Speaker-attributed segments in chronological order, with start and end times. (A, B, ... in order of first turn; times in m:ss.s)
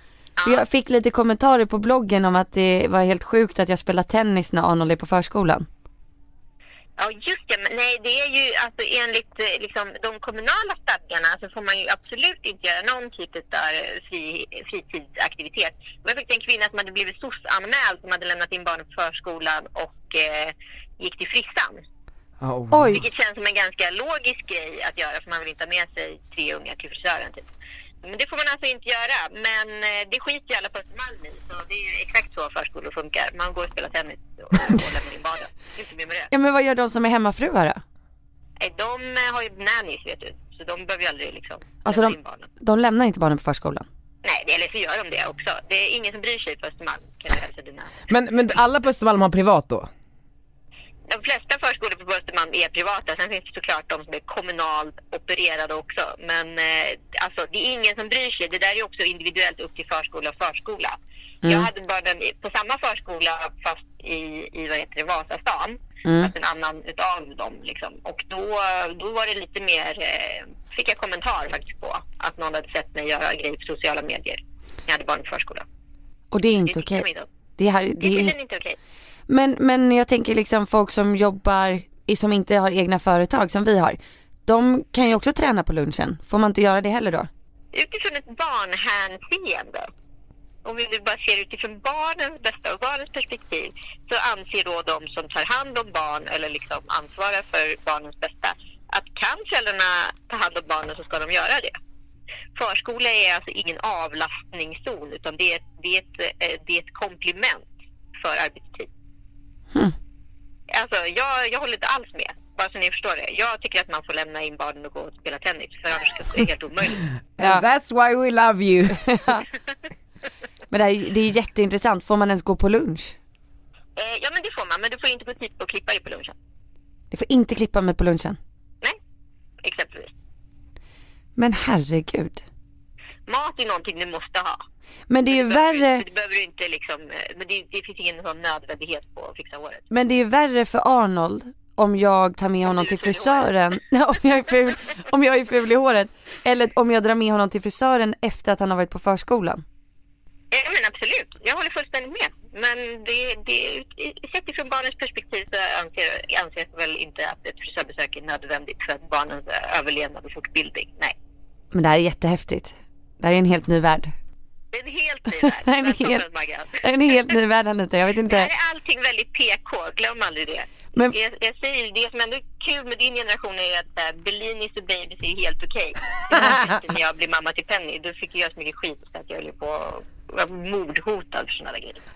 0:00.4-0:00.6 A
0:00.4-0:05.7 B
0:07.0-0:21.8 A
0:22.4-0:23.0 C
0:22.7-0:23.0 B
0:22.9-0:27.5 A
0:28.0-0:36.3 A
0:36.3-0:37.8 B
0:38.6-0:42.5 A
0:41.8-0:43.9 B
0:44.2-0:48.0 A
0:48.1-0:49.9 C
0:51.1-1:15.7 A
1:01.4-1:01.7 B
1:06.0-1:06.3 B
1:16.3-1:17.1 B
1:16.6-1:17.3 A
1:17.6-1:18.4 B
1:18.0-1:18.8 A
1:19.3-1:27.3 B
1:27.7-1:29.9 A
1:30.6-1:41.8 A
1:42.6-1:48.9 A
1:50.7-1:57.1 A
1:57.4-1:59.1 C
1:57.4-1:57.6 B
1:58.9-1:59.4 B
2:00.7-2:03.2 B
2:04.0-2:06.4 A
2:07.1-2:08.4 B
2:09.6-2:10.1 A
2:11.4-2:12.4 B
2:13.3-2:14.6 A
2:15.1-2:16.0 B
2:15.3-2:19.8 A
2:19.9-2:29.6 B
2:22.6-2:23.6 A
2:30.5-2:41.2 A
2:41.7-2:44.1 B
2:44.7-2:47.3 A
2:45.4-2:46.2 B
2:46.8-2:48.5 B
2:48.3-3:02.0 A